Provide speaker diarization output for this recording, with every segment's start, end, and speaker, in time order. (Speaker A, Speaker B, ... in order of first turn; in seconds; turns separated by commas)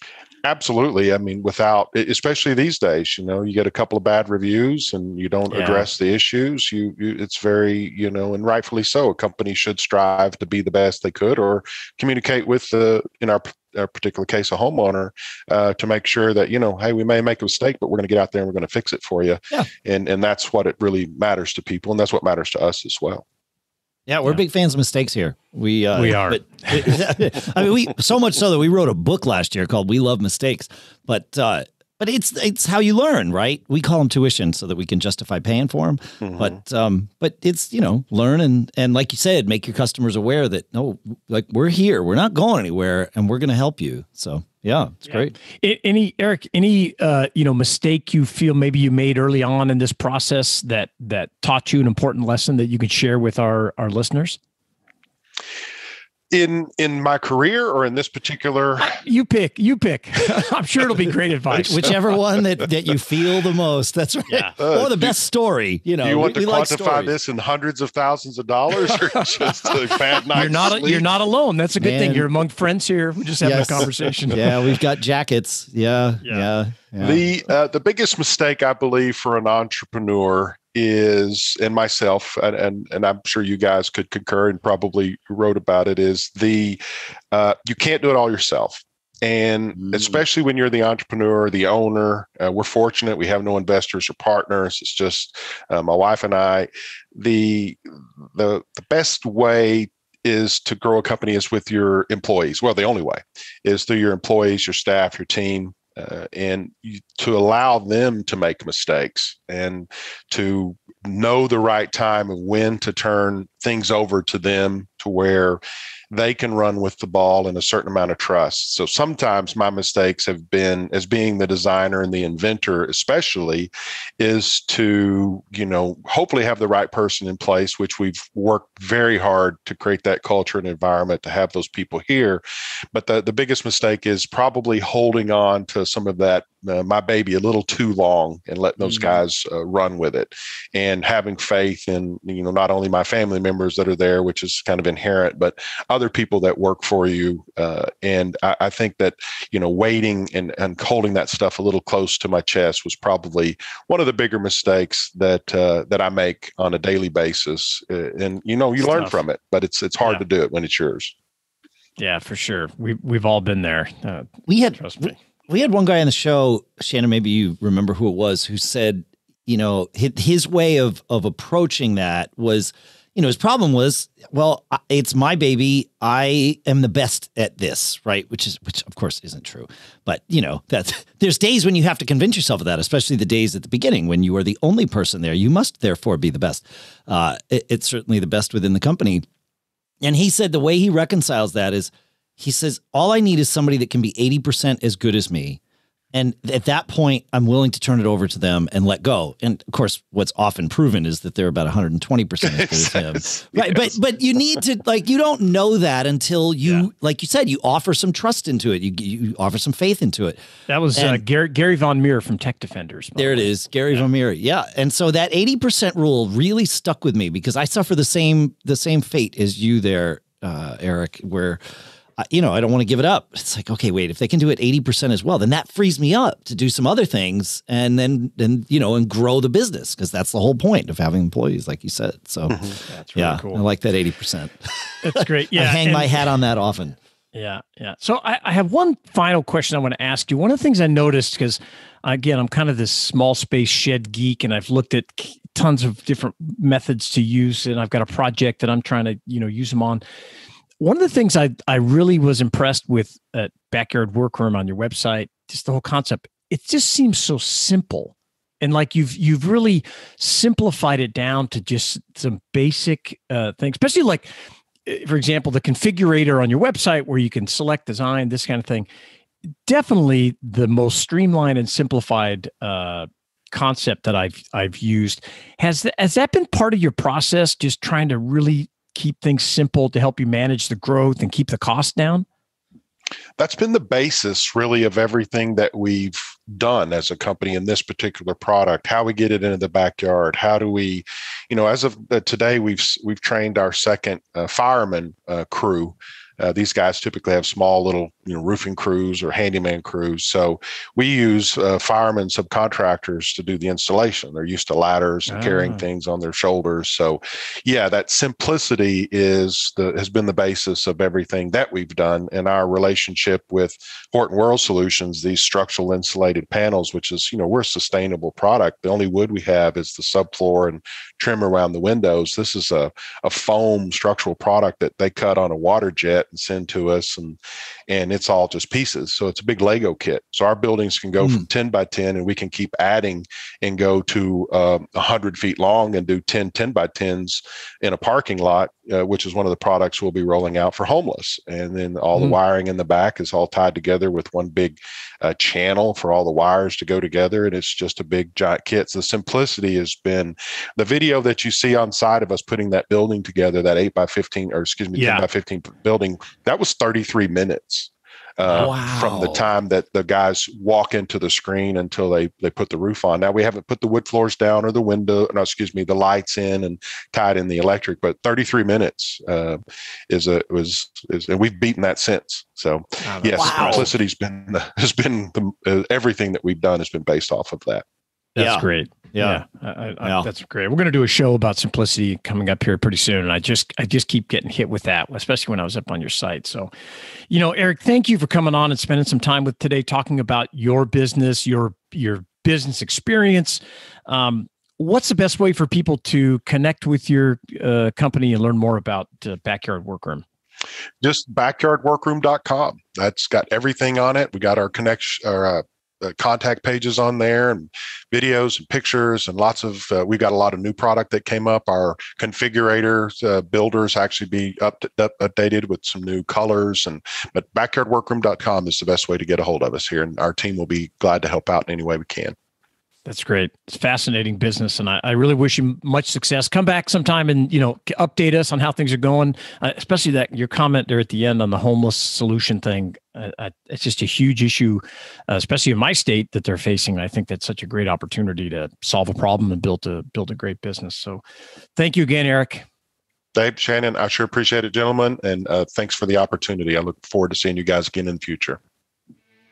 Speaker A: 0.4-23.2, Speaker B: 5.5-5.9, Speaker C: 24.1-45.4, Speaker B: 25.9-27.2, Speaker A: 36.2-36.5, Speaker B: 45.1-54.4, Speaker A: 56.3-59.0, Speaker B: 58.8-62.0, Speaker C: 61.5-67.1, Speaker B: 64.3-64.5, Speaker A: 64.6-65.2, Speaker A: 66.0-71.1, Speaker B: 70.3-74.8, Speaker C: 71.8-72.3, Speaker C: 73.4-77.2, Speaker A: 73.8-74.1, Speaker B: 76.2-76.5, Speaker A: 77.0-86.8, Speaker A: 87.3-132.4, Speaker A: 132.9-161.1, Speaker B: 158.8-159.2, Speaker B: 162.0-165.1, Speaker C: 164.5-189.3, Speaker C: 190.0-195.6, Speaker C: 196.1-210.4, Speaker A: 202.4-204.0, Speaker B: 210.7-214.0, Speaker C: 210.9-211.2, Speaker C: 213.2-221.6, Speaker C: 222.2-237.0, Speaker B: 232.9-233.6, Speaker B: 235.0-236.4, Speaker B: 237.3-250.0, Speaker B: 250.8-264.3, Speaker B: 264.9-268.9, Speaker B: 269.7-282.3, Speaker A: 283.4-377.8, Speaker B: 305.3-305.8, Speaker C: 331.2-331.4, Speaker B: 355.0-355.2, Speaker C: 358.5-359.5, Speaker B: 373.0-373.9, Speaker C: 373.4-373.9, Speaker B: 378.4-386.7, Speaker C: 378.4-379.4, Speaker C: 380.0-380.3, Speaker B: 387.3-400.2, Speaker A: 401.0-422.4, Speaker B: 423.1-441.2, Speaker B: 441.8-442.7, Speaker A: 443.4-448.6